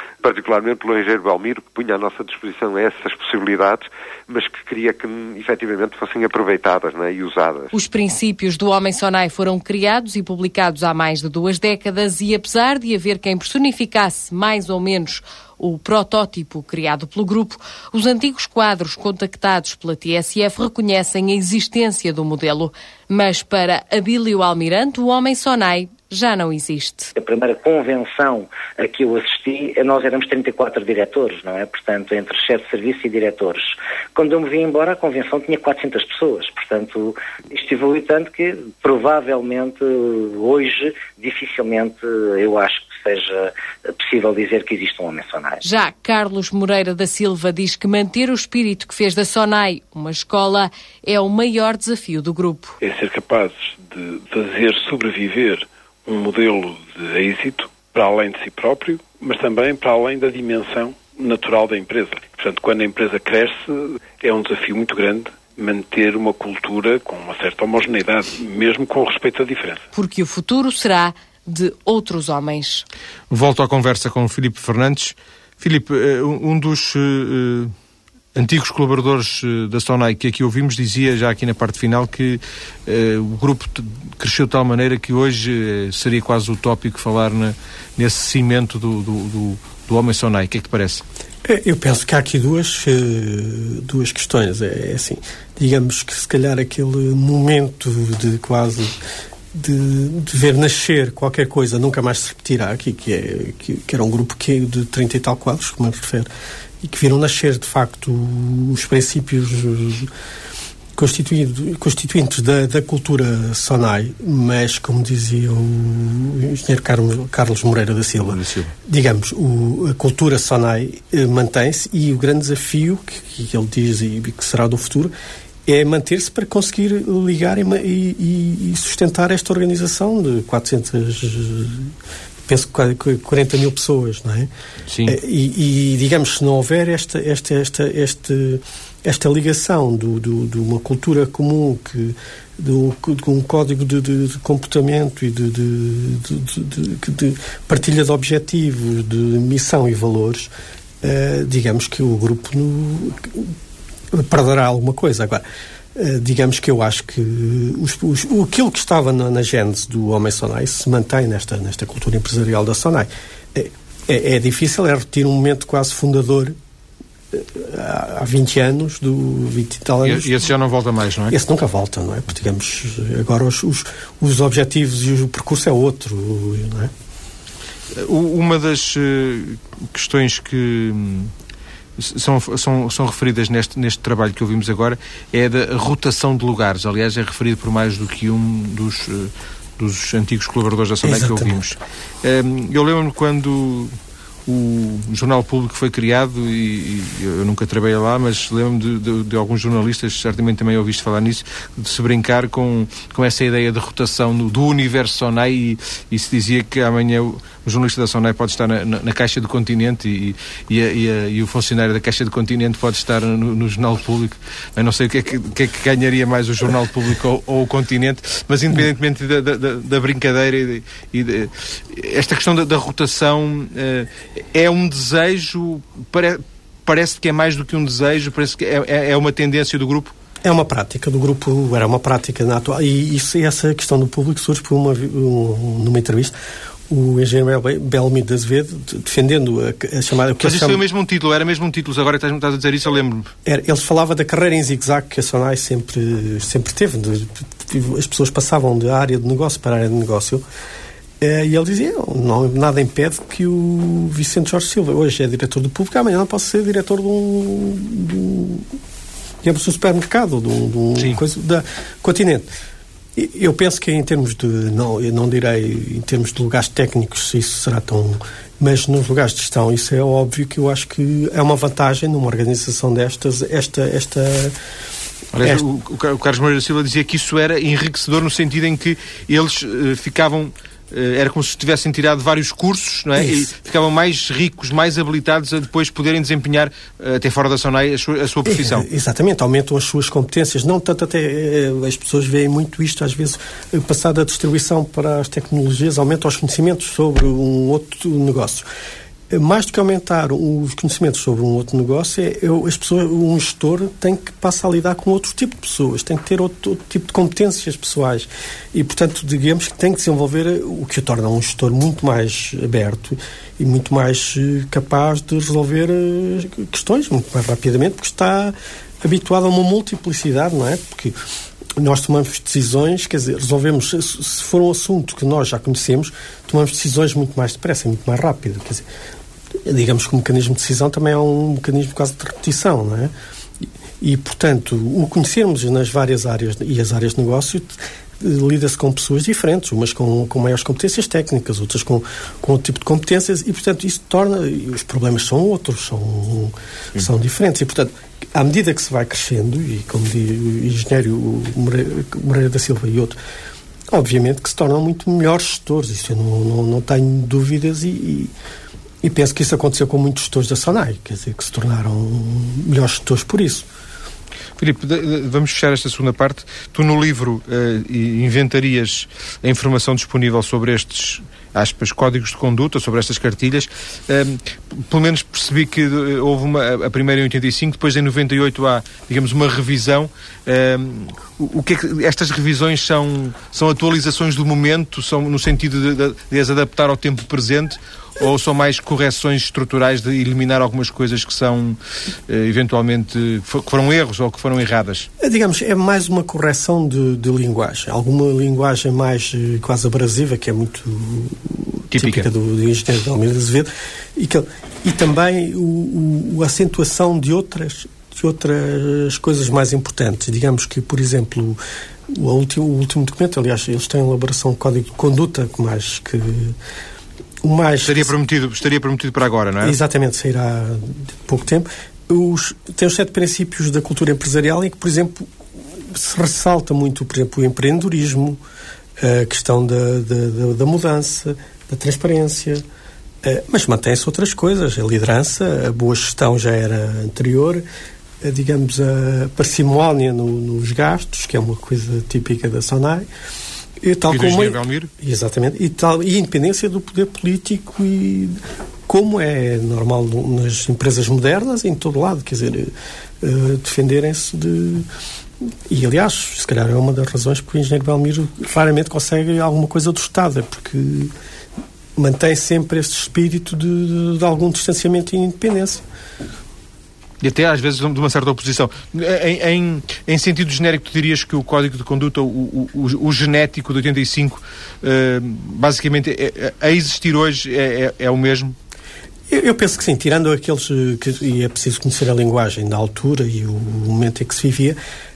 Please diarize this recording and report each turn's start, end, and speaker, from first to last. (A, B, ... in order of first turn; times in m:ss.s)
0:00.2-0:07.7 A
0:07.7-0:27.1 B
0:27.2-0:45.6 C
0:45.6-0:52.8 B
0:52.8-1:09.9 D
1:09.9-1:12.8 B
1:13.3-1:17.7 E
1:18.3-1:31.0 E
1:31.4-1:39.0 F
1:39.5-1:46.3 F
1:46.8-1:50.1 F
1:50.9-2:05.1 F
1:58.2-1:58.7 E
2:05.6-2:11.9 F
2:12.4-2:14.5 F
2:14.9-2:15.2 E
2:15.0-2:30.5 F
2:31.0-2:33.5 F
2:34.1-2:35.4 F
2:35.9-2:46.6 F
2:47.3-2:50.5 F
2:50.0-2:51.3 E
2:51.3-2:56.9 F
2:57.9-3:01.3 E
3:02.0-3:13.9 E
3:11.0-3:11.6 F
3:14.4-3:50.1 E
3:50.4-3:56.3 F
3:56.9-4:00.8 F
4:00.4-4:03.3 E
4:03.4-4:10.4 F
4:11.2-4:18.7 F
4:19.4-4:22.5 F
4:23.1-4:34.6 F
4:35.3-4:48.9 E
4:43.2-4:43.5 F
4:48.4-4:58.6 F
4:59.3-5:21.2 F
5:21.8-5:28.9 F
5:29.6-5:33.1 F
5:34.0-5:53.2 F
5:53.9-5:58.3 F
5:59.0-6:03.7 F
6:04.6-6:35.1 E
6:35.2-6:56.6 F
6:41.9-6:42.3 E
6:57.4-6:58.1 F
6:57.8-6:59.8 E
6:59.6-7:05.3 F
7:05.8-7:08.4 F
7:09.0-7:12.6 F
7:13.2-7:17.6 F
7:18.2-7:23.0 F
7:23.8-7:34.9 F
7:24.1-7:24.9 E
7:35.7-7:41.1 F
7:42.0-7:45.8 F
7:47.2-7:58.6 E
7:59.3-8:04.8 F